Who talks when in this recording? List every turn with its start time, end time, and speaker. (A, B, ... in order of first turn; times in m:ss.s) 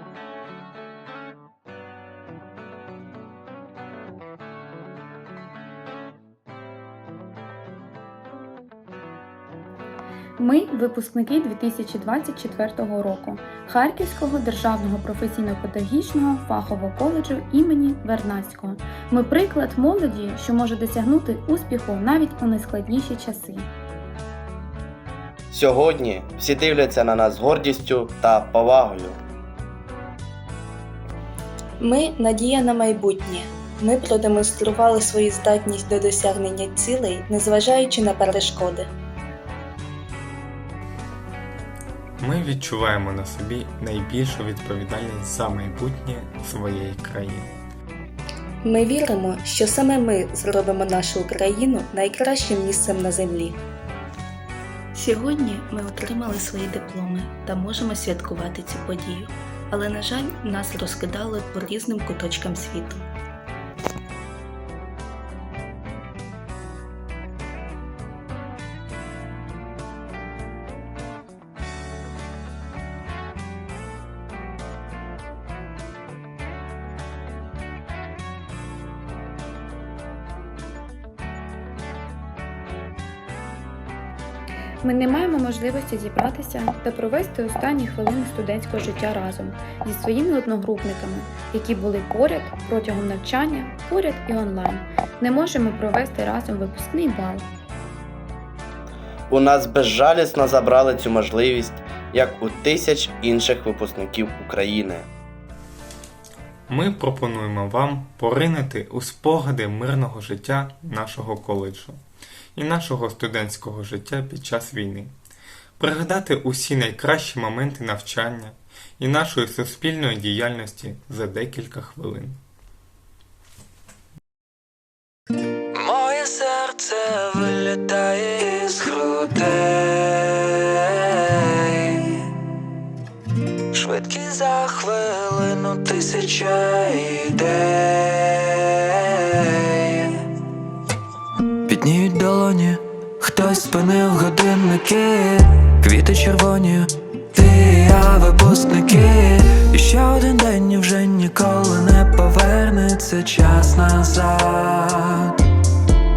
0:10.4-0:23.7 A
0:25.5-0:29.2 B
0:31.8-0:38.9 C
0:42.2-0:47.5 D
0:48.6-0:53.6 C
0:54.9-1:03.1 C
1:24.8-1:37.5 A
1:39.3-1:45.1 B
1:46.7-1:52.0 D
1:52.5-1:55.1 D
1:55.8-2:02.4 D
2:05.7-2:12.2 E
2:13.7-2:20.2 E
2:21.6-2:35.3 E